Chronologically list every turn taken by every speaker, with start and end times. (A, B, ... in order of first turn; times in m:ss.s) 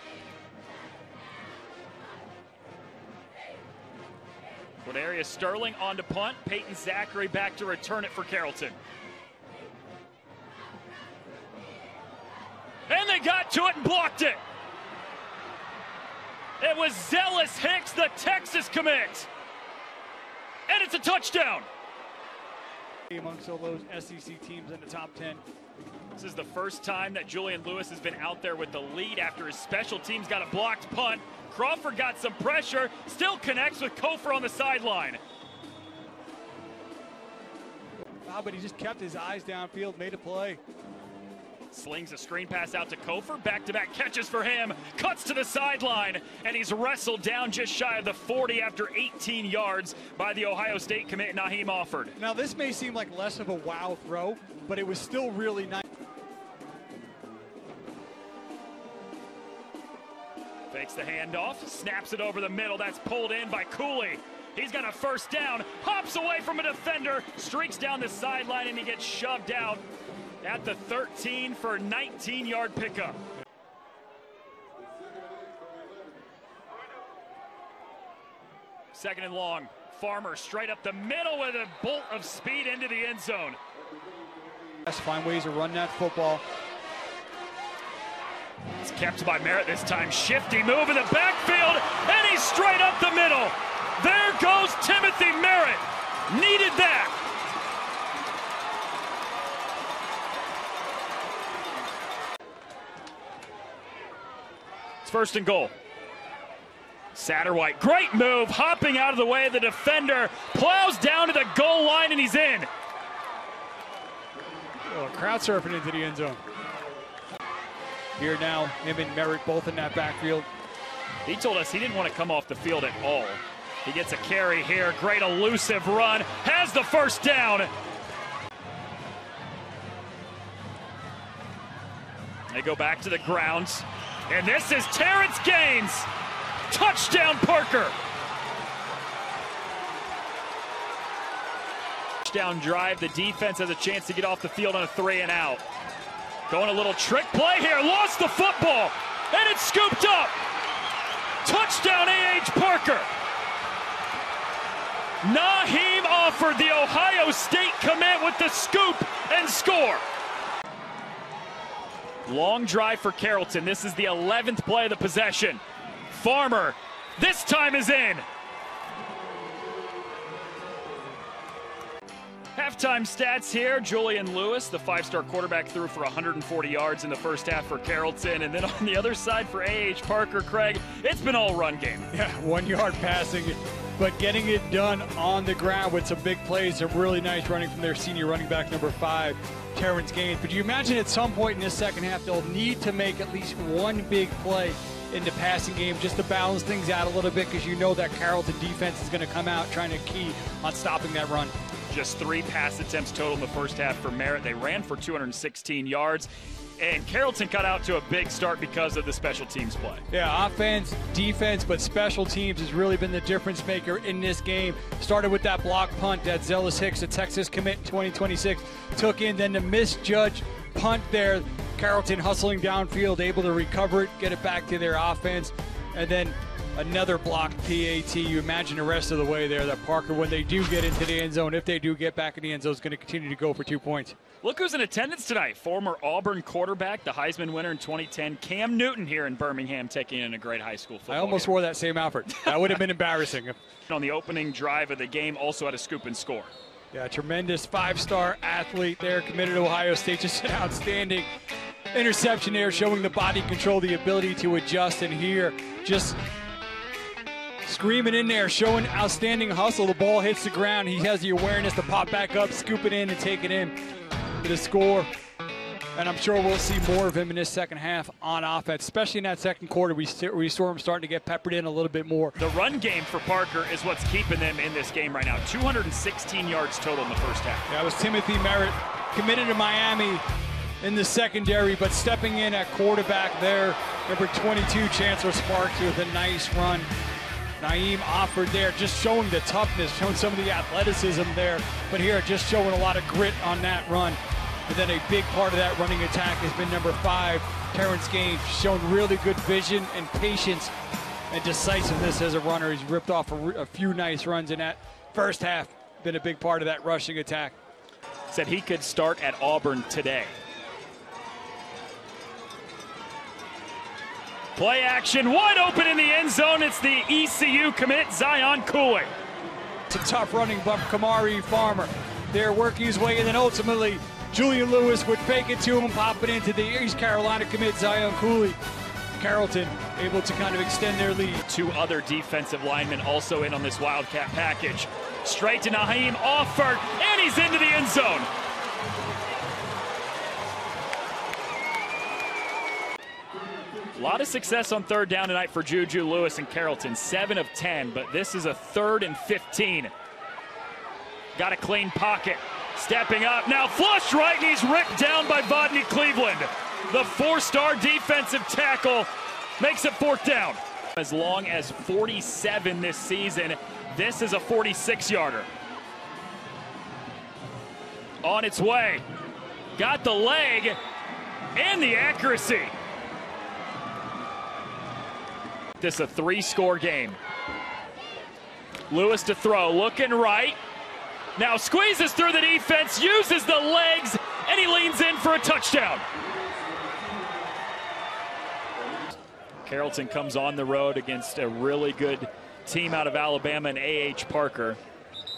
0:04.8-0:08.8 A
0:12.9-0:14.4 A
0:16.6-0:19.3 A
0:20.7-0:21.7 A
0:23.1-0:25.4 B
0:26.2-0:35.2 A
0:38.2-0:40.6 B
0:41.7-0:52.2 A
0:52.2-0:55.9 B
1:00.7-1:09.8 A
1:10.4-1:13.2 A
1:18.9-1:23.6 A
1:24.9-1:26.4 B
1:28.8-1:37.1 A
1:45.0-1:45.7 A
1:47.1-1:52.7 A
1:54.9-1:56.4 B
1:58.2-2:00.5 B
2:01.2-2:07.7 A
2:12.5-2:16.1 A
2:16.7-2:18.0 A
2:22.2-2:25.6 A
2:26.5-2:30.4 A
2:31.4-2:33.1 A
2:35.2-2:40.0 A
2:42.2-2:48.2 A
2:52.6-3:02.1 A
3:02.1-3:21.5 B
3:21.9-3:30.0 A
3:30.1-3:54.2 B
3:54.4-4:01.5 A
4:01.1-4:03.6 B
4:02.3-4:02.8 A
4:03.9-4:06.5 A
4:06.9-4:11.3 B
4:11.9-4:16.2 B
4:17.6-4:23.7 B
4:24.4-4:25.1 B
4:26.0-4:32.4 B
4:32.4-4:37.7 A
4:37.7-4:40.2 B
4:40.8-4:46.9 B
4:47.6-5:00.7 B
5:01.3-5:07.6 B
5:08.3-5:10.4 A
5:14.6-5:19.1 A
5:19.9-5:28.6 B
5:29.2-5:31.4 B
5:31.5-5:38.3 A
5:43.9-5:49.9 A
5:51.4-6:05.5 A
6:08.2-6:09.0 A
6:09.8-6:10.8 A
6:11.6-6:12.7 A
6:15.8-6:17.2 A
6:18.9-6:20.6 A
6:21.4-6:26.0 A
6:29.6-6:34.8 A